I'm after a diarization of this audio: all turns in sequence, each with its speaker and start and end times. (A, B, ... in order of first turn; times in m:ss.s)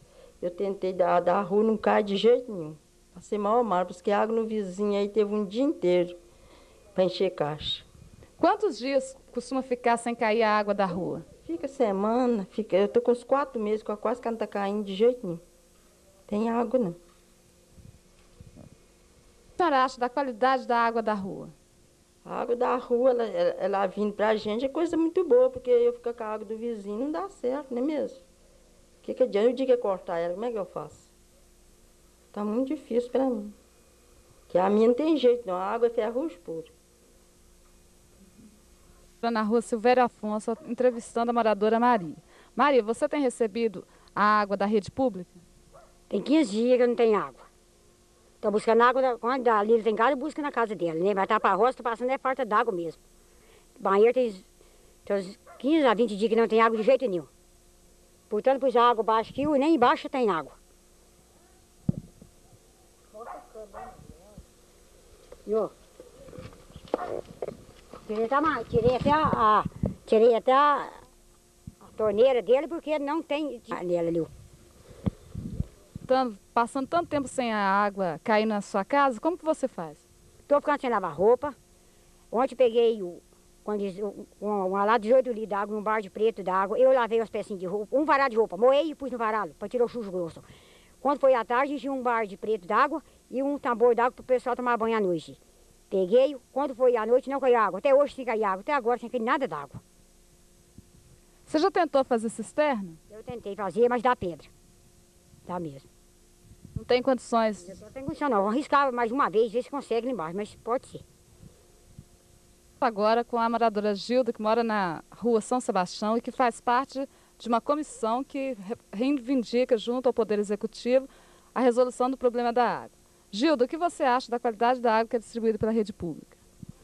0:00.4-0:06.2 A
0:06.9-0:07.8 A
0:08.4-0:11.2 B
0:11.4-0:15.4 A
0:16.3-0:17.0 A
0:19.6-0:21.5 B
0:22.2-0:28.2 A
0:29.0-0:31.1 A
0:32.3-0:33.5 A
0:34.5-0:36.7 A
0:39.2-0:45.4 B
0:46.1-0:47.4 C
0:48.4-0:53.0 C
0:53.8-0:54.4 C
0:55.0-0:57.3 C
0:58.3-1:00.6 C
1:05.4-1:05.7 C
1:08.1-1:10.9 C
1:11.8-1:14.3 C
1:16.0-1:20.0 B
1:20.5-1:21.5 C
1:22.3-1:30.4 C
1:31.0-1:35.4 C
1:35.9-1:39.8 C
1:41.5-1:43.0 B
1:43.1-1:44.5 C
1:45.5-1:45.9 C
1:46.7-1:47.7 B
1:47.6-1:51.0 C
1:52.8-2:06.4 B